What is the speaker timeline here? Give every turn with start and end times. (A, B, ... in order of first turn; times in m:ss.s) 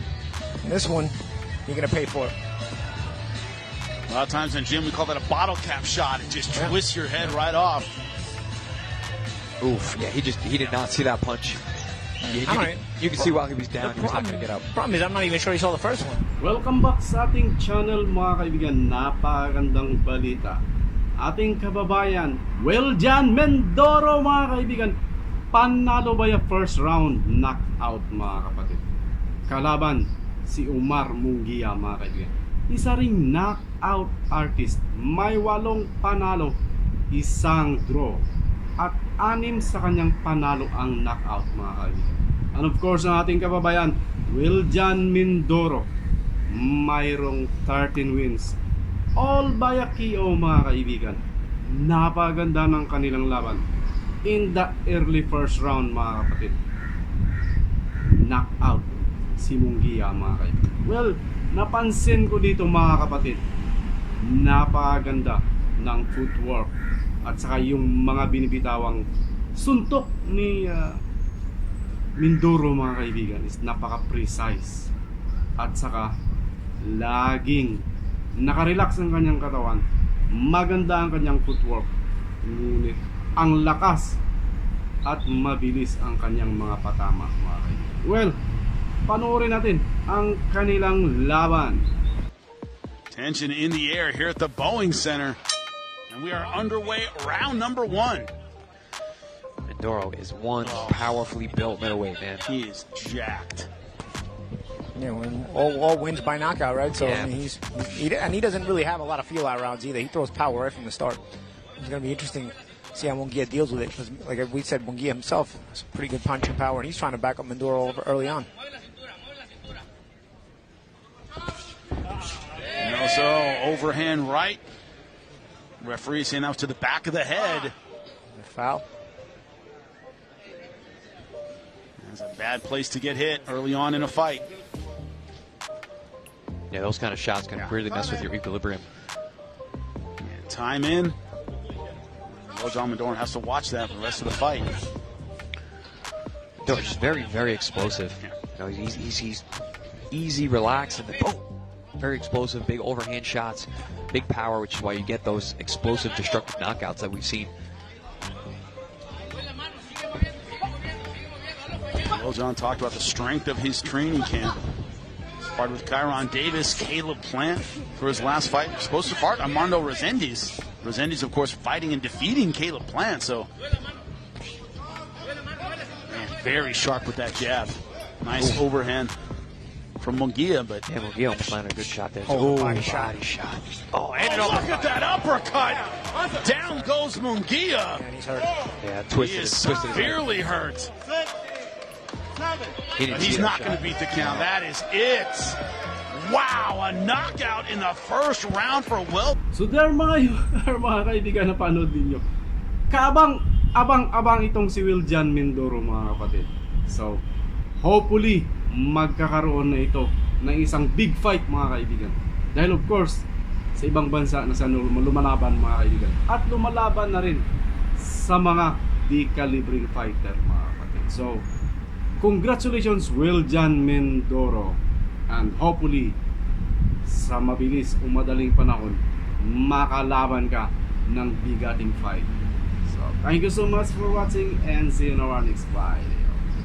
0:00.6-0:01.1 A
0:01.6-0:02.3 A
0:04.1-0:07.9 B
0:09.6-0:11.6 C
0:12.2-0:16.2 A
0:12.3-0:14.6 C
0:16.4-0:20.6 D
0:21.2-0:25.0 D
0:25.5-0:28.8 D
0:29.5-0:36.6 D
0:37.1-0:38.2 D
0:38.8-0:45.9 D
0:46.5-0:48.6 D
0:49.2-0:53.6 D
0:54.2-0:56.6 D
0:58.1-1:03.4 D
1:04.2-1:06.7 D
1:07.2-1:09.0 D
1:09.6-1:11.0 D
1:12.2-1:14.9 D
1:15.6-1:16.1 D
1:16.8-1:17.8 D
1:18.4-1:19.8 D
1:20.3-1:21.9 D
1:22.4-1:24.2 D
1:25.0-1:28.4 D
1:29.1-1:31.8 D
1:33.1-1:35.4 B
1:36.1-1:38.3 B
1:39.7-1:42.4 C
1:40.6-1:41.1 B
1:42.4-1:43.7 B
1:44.9-1:51.2 A
1:47.0-1:47.3 C
1:51.8-1:58.5 A
2:02.8-2:04.6 B
2:05.8-2:07.7 B
2:08.3-2:08.8 A
2:12.0-2:14.5 B
2:16.7-2:18.9 C
2:20.2-2:21.2 B
2:22.4-2:24.8 B
2:26.6-2:29.4 C
2:30.1-2:31.4 C
2:32.0-2:37.5 C
2:42.1-2:44.6 B
2:45.4-2:53.5 B
2:56.1-2:59.1 B
3:00.0-3:00.8 B
3:00.9-3:03.8 C
3:02.2-3:03.2 A
3:03.9-3:08.0 B
3:07.9-3:08.5 A
3:08.8-3:10.2 C
3:09.1-3:10.9 B
3:13.0-3:14.5 C
3:13.1-3:15.6 B
3:16.1-3:19.4 B
3:19.5-3:22.2 D
3:22.9-3:27.2 D
3:27.8-3:33.2 D
3:33.8-3:37.4 D
3:38.0-3:41.4 D
3:42.2-3:44.8 D
3:45.3-3:46.2 D
3:47.1-3:52.3 D
3:52.9-3:56.4 D